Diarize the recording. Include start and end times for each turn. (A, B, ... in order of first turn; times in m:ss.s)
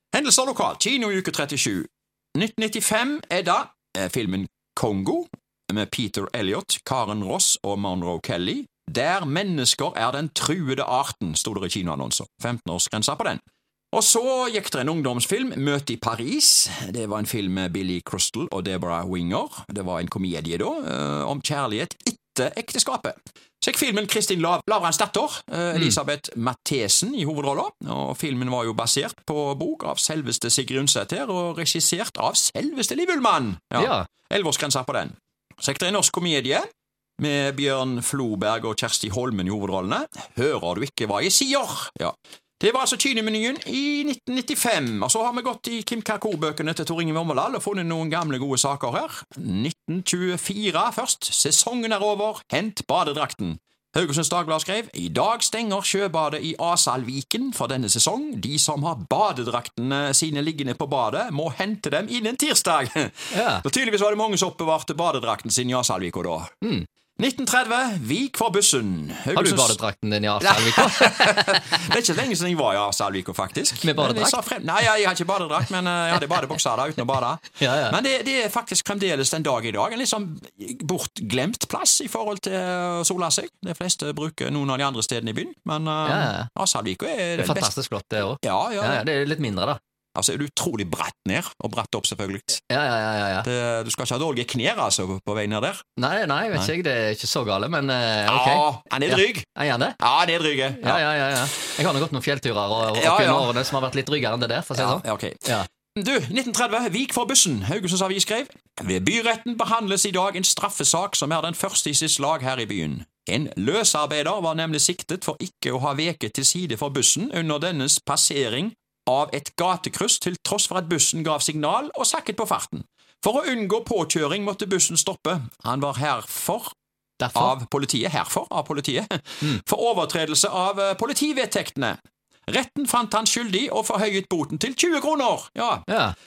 0:00.1-0:13.4 A
0:13.9-0:36.6 A
0:25.7-0:26.0 B
0:33.8-0:34.1 B
0:37.2-1:06.5 A
1:03.3-1:03.6 B
1:06.6-1:06.9 B
1:07.2-1:09.8 A
1:09.3-1:11.8 B
1:10.4-1:27.7 A
1:13.8-1:14.4 B
1:17.6-1:18.0 B
1:26.0-1:26.5 B
1:27.4-1:29.8 B
1:28.4-1:29.0 A
1:30.2-1:32.6 A
1:32.7-1:33.5 B
1:33.4-1:35.8 A
1:36.0-1:40.0 B
1:38.3-1:39.5 A
1:40.0-1:41.0 A
1:40.7-1:45.7 B
1:42.9-1:43.6 A
1:44.8-2:06.7 A
2:07.2-2:07.5 B
2:07.3-2:12.0 A
2:12.5-2:15.8 A
2:15.9-2:16.1 B